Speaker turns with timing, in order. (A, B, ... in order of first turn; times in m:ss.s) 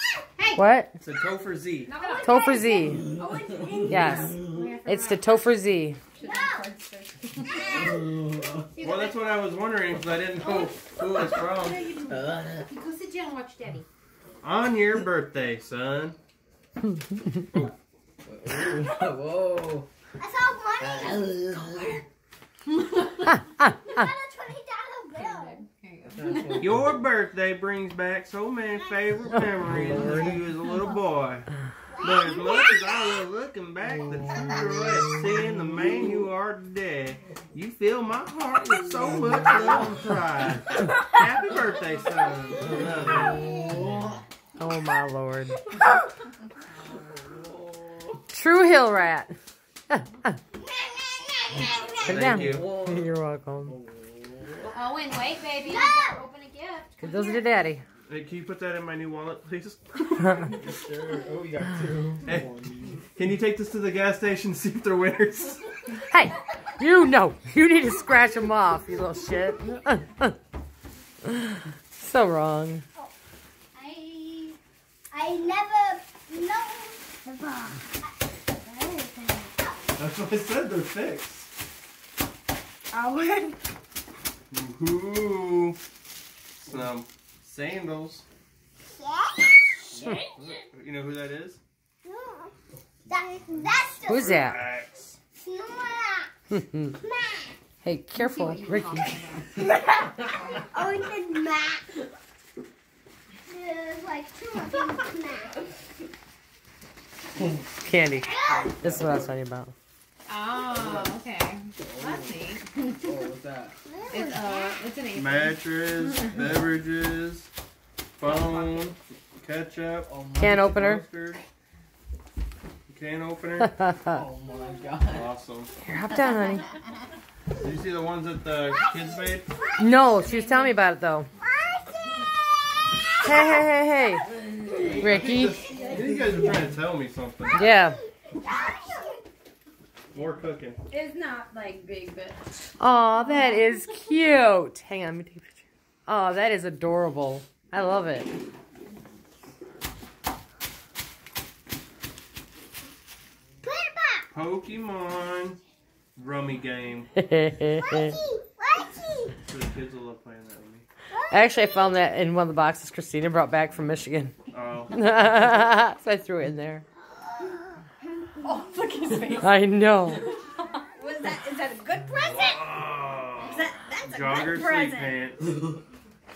0:00.6-0:01.0 A
0:01.0-0:01.9 B
0:01.9-0:02.5 C
0:01.9-0:03.0 D
0:02.2-0:03.1 A
0:03.1-0:05.4 C
0:03.5-0:04.6 E
0:03.8-0:04.3 A
0:04.8-0:06.0 A
0:06.1-0:08.0 C
0:06.2-0:06.6 D
0:07.5-0:08.7 E
0:08.8-0:11.9 B
0:11.4-0:13.9 C
0:12.1-0:12.7 E
0:14.4-0:16.2 B
0:18.2-0:19.9 E
0:20.2-0:22.0 D
0:20.8-0:22.0 E
0:22.8-0:23.3 C
0:23.7-0:25.6 D
0:25.1-0:26.7 C
0:26.0-0:26.9 E
0:26.6-0:43.5 B
0:31.9-0:32.9 D
0:43.1-0:43.8 D
0:43.3-0:44.2 E
0:44.6-0:45.8 A
0:47.2-0:48.2 E
0:48.3-0:49.3 A
0:49.9-0:50.4 A
0:50.6-0:52.2 D
0:52.0-0:53.8 A
0:52.1-0:52.7 B
0:52.4-0:53.1 E
0:53.7-0:54.8 E
0:54.7-0:57.0 C
0:55.6-0:56.2 D
0:57.0-0:57.8 A
0:57.0-0:57.4 D
0:58.1-1:00.7 B
1:00.5-1:03.0 E
1:02.2-1:02.5 B
1:03.2-1:05.7 B
1:06.1-1:10.4 A
1:11.2-1:12.8 A
1:13.7-1:14.6 D
1:15.1-1:17.5 D
1:18.0-1:19.9 D
1:20.0-1:21.5 B
1:22.9-1:23.6 C
1:24.5-1:25.8 B
1:26.6-1:28.2 B
1:28.9-1:29.8 D
1:30.2-1:31.6 B
1:32.0-1:32.5 D
1:33.1-1:34.5 D
1:34.0-1:35.2 B
1:34.0-1:34.6 A
1:35.4-1:36.3 D
1:36.5-1:37.0 A
1:37.0-1:37.6 D
1:37.8-1:39.2 A
1:38.2-1:39.5 C
1:40.2-1:41.9 D
1:43.5-1:45.7 D
1:47.8-1:49.7 A
1:48.2-1:48.7 D
1:48.5-1:49.2 E
1:50.3-1:53.2 C
1:50.6-1:51.2 E
1:51.8-1:53.8 E
1:53.8-1:54.8 D
1:54.1-1:55.6 C
1:55.1-1:57.5 B
1:58.2-2:01.4 B
1:58.2-1:58.9 C
2:00.0-2:00.6 E
2:00.4-2:01.0 A
2:02.9-2:03.8 B
2:03.8-2:04.2 A
2:04.1-2:05.3 E
2:05.1-2:05.7 B
2:05.8-2:06.7 A
2:07.6-2:09.5 B
2:09.8-2:11.3 A
2:10.2-2:10.7 C
2:11.4-2:12.2 D
2:13.2-2:14.3 A
2:14.9-2:17.6 B
2:15.0-2:15.6 A
2:15.7-2:16.4 C
2:17.5-2:18.0 A
2:18.3-2:19.2 D
2:20.1-2:20.8 B
2:20.9-2:22.6 C
2:22.8-2:28.3 A
2:33.6-2:34.3 D
2:34.3-2:35.6 B
2:36.2-2:37.1 B
2:37.2-2:38.2 A
2:37.8-2:39.4 D
2:39.4-2:40.8 B
2:41.1-2:42.0 D
2:41.3-2:44.3 A
2:44.5-2:45.0 B
2:44.9-2:46.8 A
2:47.2-2:47.6 D
2:48.4-2:49.6 C
2:49.4-2:50.3 A
2:50.1-2:52.7 C
2:52.3-2:55.6 B
2:53.4-2:55.2 C